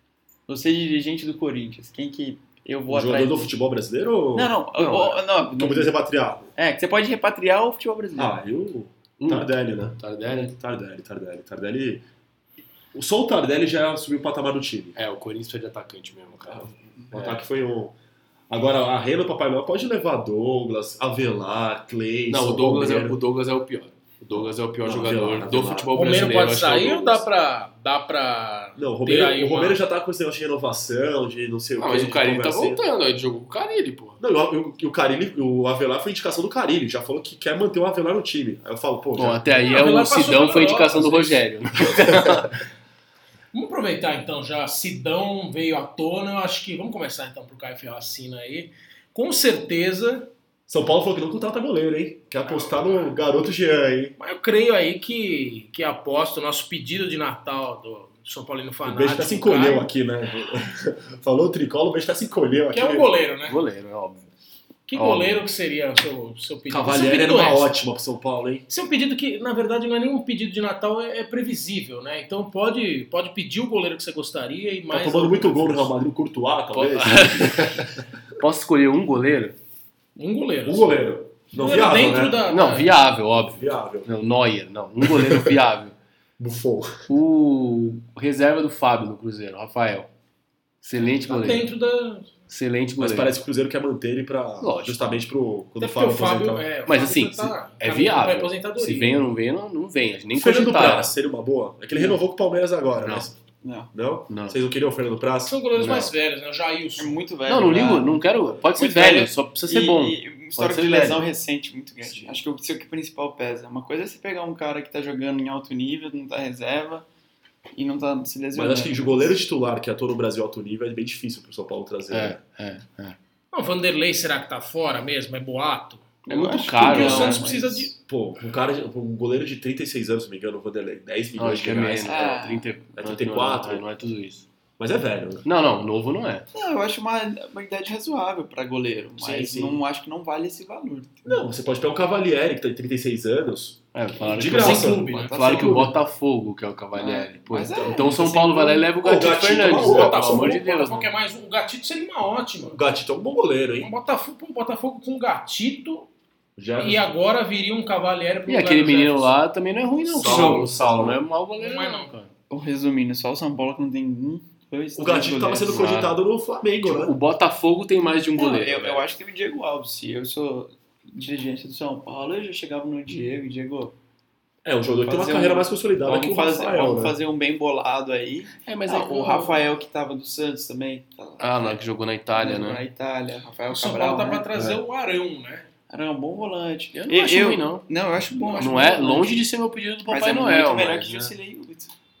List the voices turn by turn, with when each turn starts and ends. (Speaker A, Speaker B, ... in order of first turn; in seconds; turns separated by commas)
Speaker A: 0.5-3.4, Speaker B: 2.9-6.5, Speaker A: 4.3-6.0, Speaker A: 6.5-8.3, Speaker B: 8.2-12.0, Speaker C: 9.2-10.5, Speaker B: 12.9-15.0, Speaker C: 14.9-17.4, Speaker B: 16.4-17.9, Speaker B: 18.5-23.2, Speaker C: 22.3-27.2, Speaker B: 24.3-25.9, Speaker D: 25.9-29.8, Speaker B: 28.8-32.8, Speaker C: 31.8-34.2, Speaker B: 34.2-39.5, Speaker C: 39.1-42.6, Speaker D: 39.6-41.4, Speaker D: 43.5-50.3, Speaker B: 50.7-54.1, Speaker D: 52.4-53.1, Speaker D: 54.2-59.9, Speaker B: 58.8-63.1, Speaker D: 62.7-63.6, Speaker C: 63.5-64.3, Speaker D: 64.9-67.7, Speaker C: 64.9-65.4, Speaker B: 66.7-68.6, Speaker D: 68.7-75.9, Speaker B: 74.9-78.0, Speaker C: 76.7-79.5, Speaker D: 80.2-82.9, Speaker B: 80.6-82.4, Speaker C: 82.5-85.9, Speaker B: 83.5-84.1, Speaker B: 85.0-85.5, Speaker B: 86.4-87.0, Speaker C: 87.1-90.1, Speaker C: 90.8-91.7, Speaker D: 91.0-92.3, Speaker C: 92.5-93.3, Speaker B: 93.0-96.7, Speaker C: 94.6-95.2, Speaker D: 95.8-99.2, Speaker C: 96.9-101.1, Speaker B: 100.3-103.4, Speaker A: 101.9-102.2, Speaker C: 103.0-103.3, Speaker A: 103.6-103.9, Speaker B: 103.9-105.6, Speaker C: 104.3-104.6, Speaker D: 105.5-107.2, Speaker C: 105.8-106.1, Speaker A: 107.0-108.2, Speaker C: 107.5-111.3, Speaker A: 108.7-117.0, Speaker A: 117.7-119.4, Speaker B: 118.5-122.4, Speaker C: 122.1-123.2, Speaker D: 123.5-126.2, Speaker A: 126.2-127.9, Speaker C: 126.3-127.4, Speaker D: 126.7-127.9, Speaker B: 128.1-132.4, Speaker C: 131.4-134.5, Speaker A: 132.0-132.7, Speaker B: 132.9-133.8, Speaker B: 134.8-135.4, Speaker C: 135.4-136.5, Speaker A: 136.5-141.4, Speaker B: 139.2-139.8, Speaker B: 141.2-145.9, Speaker C: 143.9-151.1, Speaker D: 144.4-145.3, Speaker A: 144.9-145.9, Speaker A: 146.9-148.9, Speaker B: 147.7-148.1, Speaker B: 149.0-150.6, Speaker D: 149.2-152.8, Speaker B: 152.6-153.9, Speaker D: 153.8-156.1, Speaker B: 156.6-157.1, Speaker D: 156.8-159.3, Speaker C: 158.5-162.3, Speaker B: 160.1-161.2, Speaker D: 160.2-160.7, Speaker D: 161.6-162.1, Speaker A: 162.5-165.9, Speaker B: 164.9-167.1, Speaker C: 165.7-166.2, Speaker C: 166.8-169.1, Speaker A: 168.4-173.9, Speaker B: 174.6-177.2, Speaker A: 175.0-181.8, Speaker C: 178.7-179.6, Speaker C: 181.4-182.8, Speaker A: 182.3-184.5, Speaker D: 183.7-185.7, Speaker B: 184.5-184.8, Speaker A: 185.9-189.5, Speaker C: 186.9-187.8, Speaker C: 188.4-191.3, Speaker A: 190.1-191.9